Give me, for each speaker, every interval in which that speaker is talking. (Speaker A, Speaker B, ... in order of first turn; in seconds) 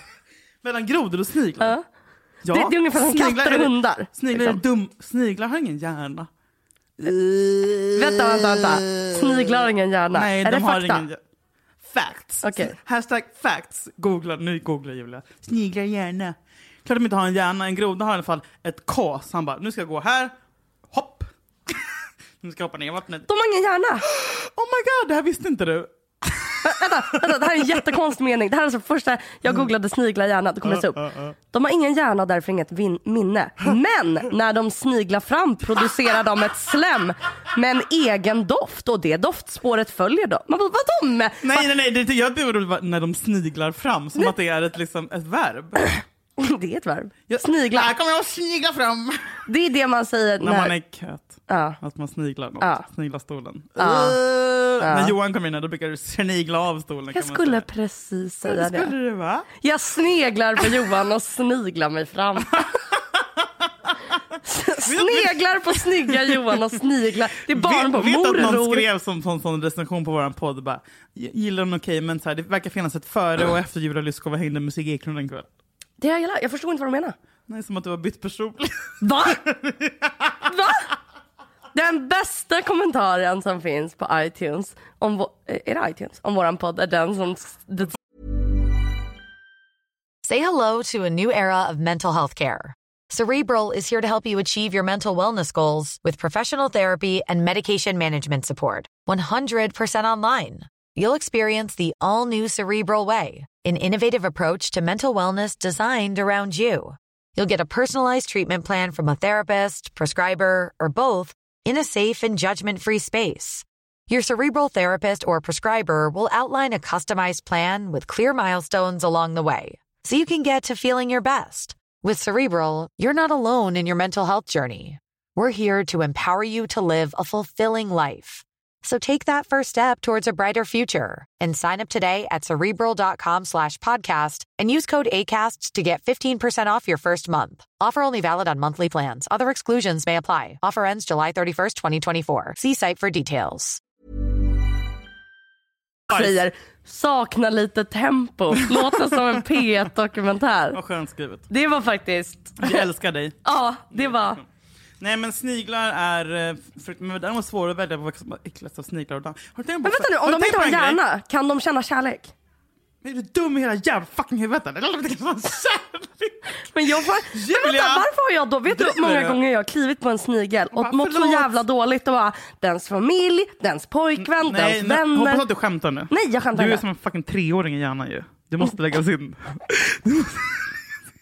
Speaker A: 0.6-1.8, 2.4-6.3, 7.0-11.2, 11.8-20.3, 20.9-21.8, 22.4-23.3, 24.0-27.7, 30.6-31.4, 41.4-45.8, 47.3-49.4, 50.4-57.6, 58.5-59.5, 64.8-66.8, 67.4-75.5, 77.5-80.3, 150.7-151.5, 152.6-153.4, 153.9-154.4, 155.0-161.0, 163.0-166.5, 167.2-168.1, 168.7-169.4, 170.7-171.5, 174.2-180.7
Speaker B: 2.5-4.6, 7.9-11.1, 12.4-12.8, 23.3-24.0, 26.6-41.7, 45.8-47.9, 49.5-50.7, 51.5-51.8, 52.6-52.9, 53.8-54.2, 54.8-55.1, 57.1-58.9, 59.6-62.7, 64.4-68.8, 76.0-77.1, 79.0-79.4, 80.5-80.9, 81.7-87.9, 146.1-150.8, 151.5-152.8, 153.4-154.4, 159.8-162.3, 166.6-175.4, 176.1-176.8
Speaker C: 90.2-143.8